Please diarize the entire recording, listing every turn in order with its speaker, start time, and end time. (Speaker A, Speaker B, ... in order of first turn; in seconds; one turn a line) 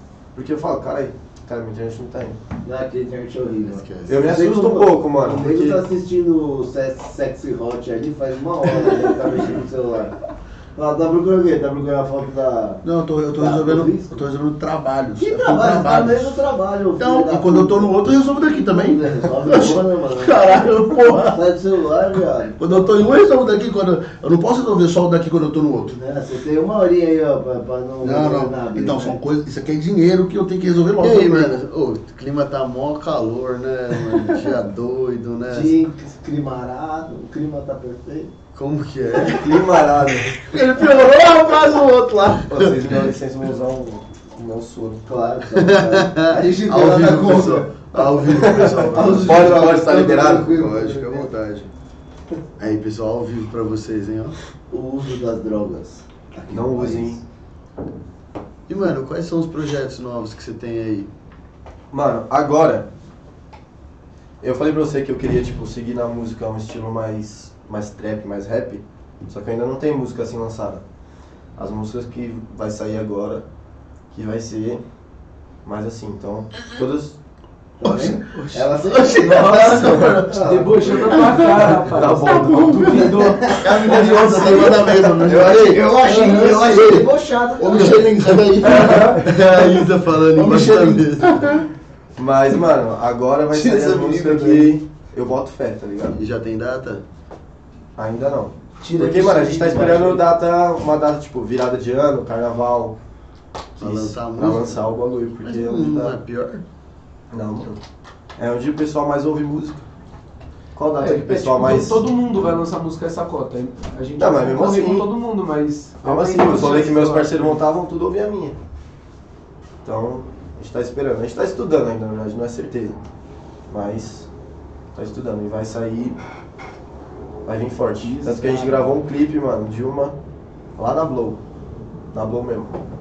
Speaker A: 0.3-2.4
Speaker B: 2.6-10.2
Speaker C: 3.6-4.2
Speaker A: 4.1-5.8
Speaker B: 10.8-12.8
Speaker D: 12.8-16.4
Speaker B: 13.4-14.2
Speaker B: 15.2-17.9
Speaker D: 17.0-21.5
Speaker B: 18.5-22.8
Speaker D: 22.5-25.9
Speaker B: 25.9-29.2
Speaker D: 28.0-31.6
Speaker C: 31.0-35.8
Speaker B: 35.5-38.3
Speaker C: 38.5-39.5
Speaker A: 39.2-40.4
Speaker D: 40.5-42.8
Speaker A: 42.5-45.0
Speaker B: 45.1-51.3
Speaker C: 45.5-51.7
Speaker A: 48.4-50.5
Speaker C: 52.6-54.4
Speaker B: 54.7-57.2
Speaker A: 56.5-57.2
Speaker C: 58.7-61.1
Speaker A: 61.9-62.9
Speaker A: 64.4-70.8
Speaker A: 71.6-73.4
Speaker A: 74.1-74.8
Speaker A: 75.6-77.2
Speaker B: 77.8-81.5
Speaker D: 77.8-78.2
Speaker E: 78.3-78.7
Speaker D: 78.8-91.7
Speaker E: 79.3-83.7
Speaker A: 79.8-80.2
Speaker A: 81.7-83.0
Speaker A: 84.1-85.6
Speaker B: 84.4-88.4
Speaker A: 88.7-89.1
Speaker C: 89.0-91.6
Speaker A: 92.2-96.2
Speaker C: 96.1-97.0
Speaker A: 98.0-103.0
Speaker B: 98.9-99.5
Speaker E: 99.0-100.1
Speaker A: 103.8-106.2
Speaker C: 103.8-104.8
Speaker C: 105.4-106.6
Speaker A: 107.3-107.8
Speaker A: 108.4-109.8
Speaker A: 110.8-112.1
Speaker E: 111.0-117.6
Speaker A: 114.2-115.1
Speaker A: 116.0-118.6
Speaker A: 119.8-123.0
Speaker A: 123.7-124.3
Speaker A: 124.9-126.2
Speaker A: 127.5-130.2
Speaker E: 128.1-128.8
Speaker A: 130.8-131.4
Speaker A: 132.1-132.7